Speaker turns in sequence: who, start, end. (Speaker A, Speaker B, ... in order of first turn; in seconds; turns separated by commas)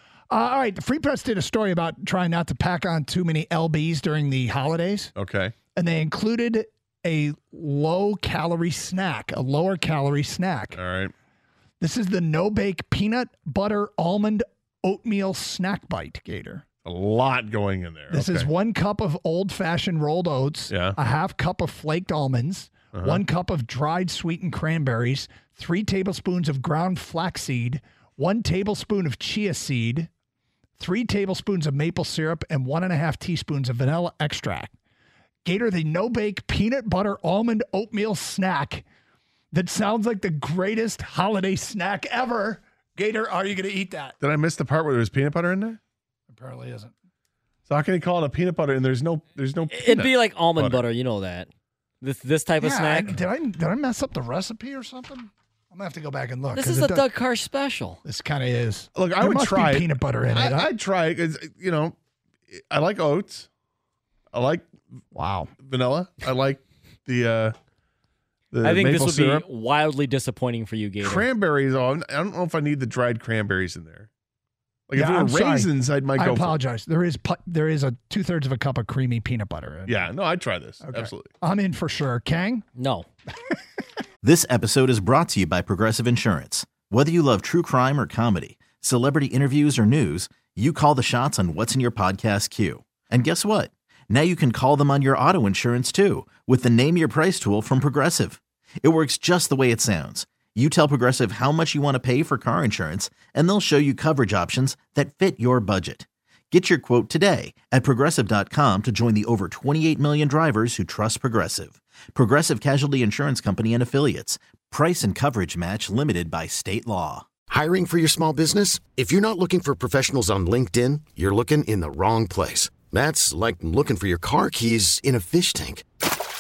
Speaker A: 0.3-5.1, Speaker B: 5.2-5.5, Speaker A: 5.8-10.8, Speaker B: 10.7-11.1, Speaker A: 11.8-16.6, Speaker B: 16.9-18.5, Speaker A: 18.1-30.1, Speaker B: 20.7-21.0, Speaker B: 22.9-23.2, Speaker A: 30.8-34.7, Speaker A: 35.5-38.9, Speaker A: 39.5-44.2, Speaker B: 44.2-45.8, Speaker A: 46.3-46.9, Speaker B: 47.7-50.8, Speaker C: 49.7-51.5, Speaker C: 52.0-53.2, Speaker A: 52.6-57.1, Speaker C: 56.5-58.0, Speaker A: 58.0-60.7, Speaker B: 59.0-62.0, Speaker B: 62.5-63.5, Speaker B: 64.3-64.7, Speaker A: 65.1-65.5, Speaker B: 65.6-67.5, Speaker B: 68.5-69.5, Speaker C: 68.6-71.3, Speaker B: 71.0-74.1, Speaker B: 74.9-76.6, Speaker A: 75.0-80.0, Speaker B: 79.9-81.3, Speaker A: 80.8-82.7, Speaker C: 82.8-83.1, Speaker D: 84.2-117.3, Speaker E: 117.5-125.8